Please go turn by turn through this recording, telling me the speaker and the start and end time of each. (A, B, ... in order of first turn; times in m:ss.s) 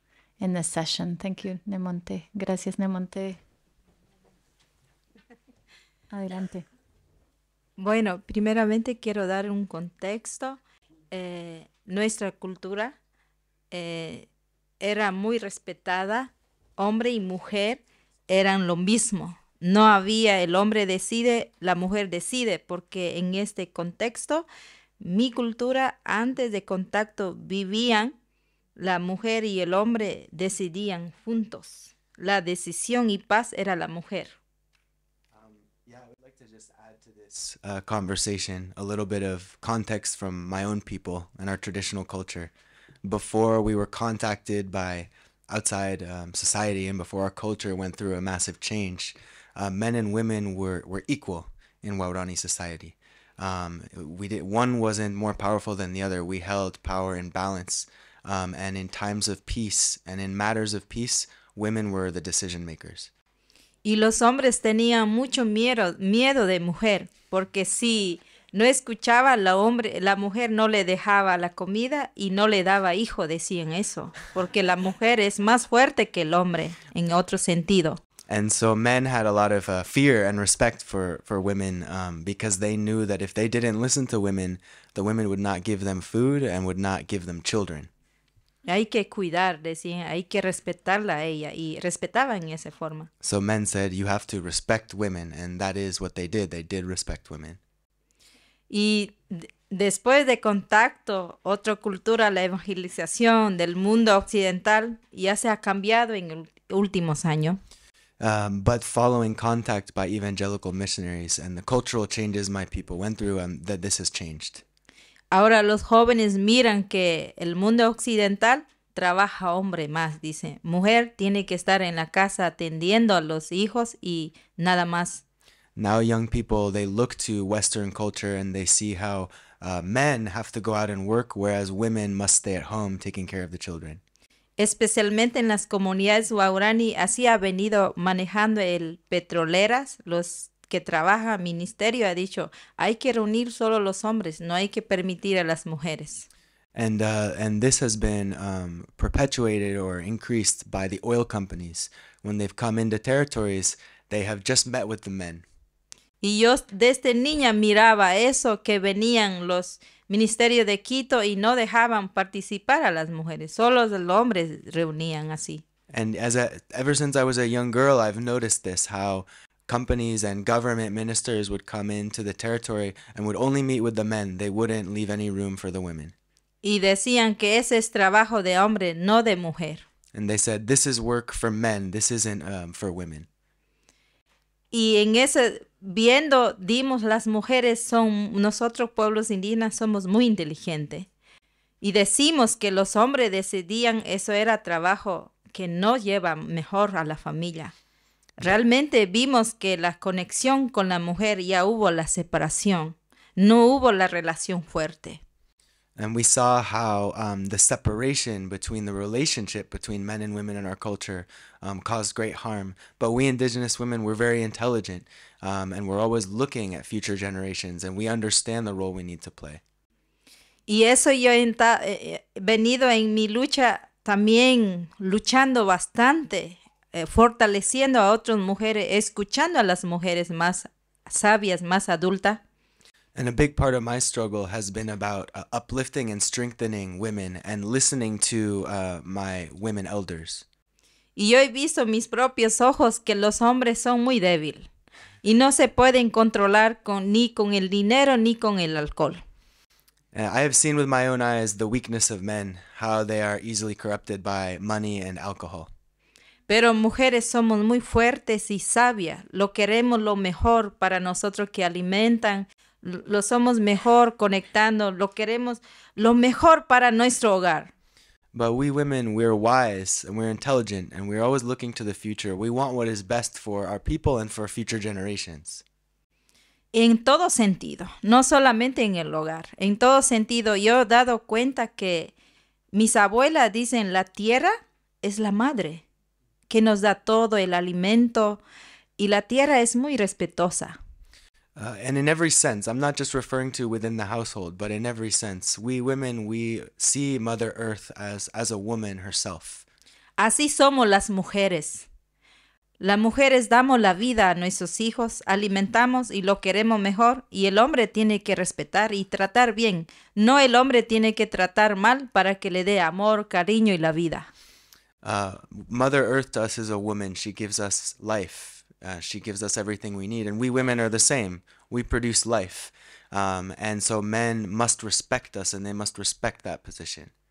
0:00.4-0:03.4 A
0:06.1-0:06.7 A
0:07.8-0:10.6 B
0:11.1-0:13.0 B
0:13.7-0:14.3 B
0:14.8-0:24.5 B
0:25.0-0:28.2 B
0:28.8-0:34.4 B
0:35.3-0:42.5 C
0:43.0-1:03.1 C
1:03.8-1:18.0 B
1:18.3-1:27.9 C
1:28.6-1:33.1 B
1:33.2-1:37.6 C
1:38.7-1:47.6 B
1:48.2-1:54.6 C
1:55.3-2:05.2 B
2:05.8-2:14.0 C
2:14.6-2:26.3 B
2:26.8-2:35.4 C
2:36.2-2:45.6 B
2:45.9-2:56.1 C
2:56.6-2:59.8 B
3:00.1-3:03.3 C
3:04.7-3:11.1 B
3:11.8-3:17.7 B
3:18.4-3:25.2 B
3:26.0-3:39.6 C
3:40.7-3:52.4 B
3:53.2-4:00.5 C
4:01.2-4:04.7 B
4:05.2-4:09.2 B
4:10.1-4:15.7 C
4:16.5-4:27.7 B
4:28.3-4:35.6 C
4:36.7-4:42.1 B
4:42.7-4:45.8 B
4:46.5-4:48.4 B
4:49.0-4:50.8 B
4:51.6-4:59.7 C
5:00.2-5:01.9 B
5:02.8-5:14.3 B
5:15.0-5:27.1 C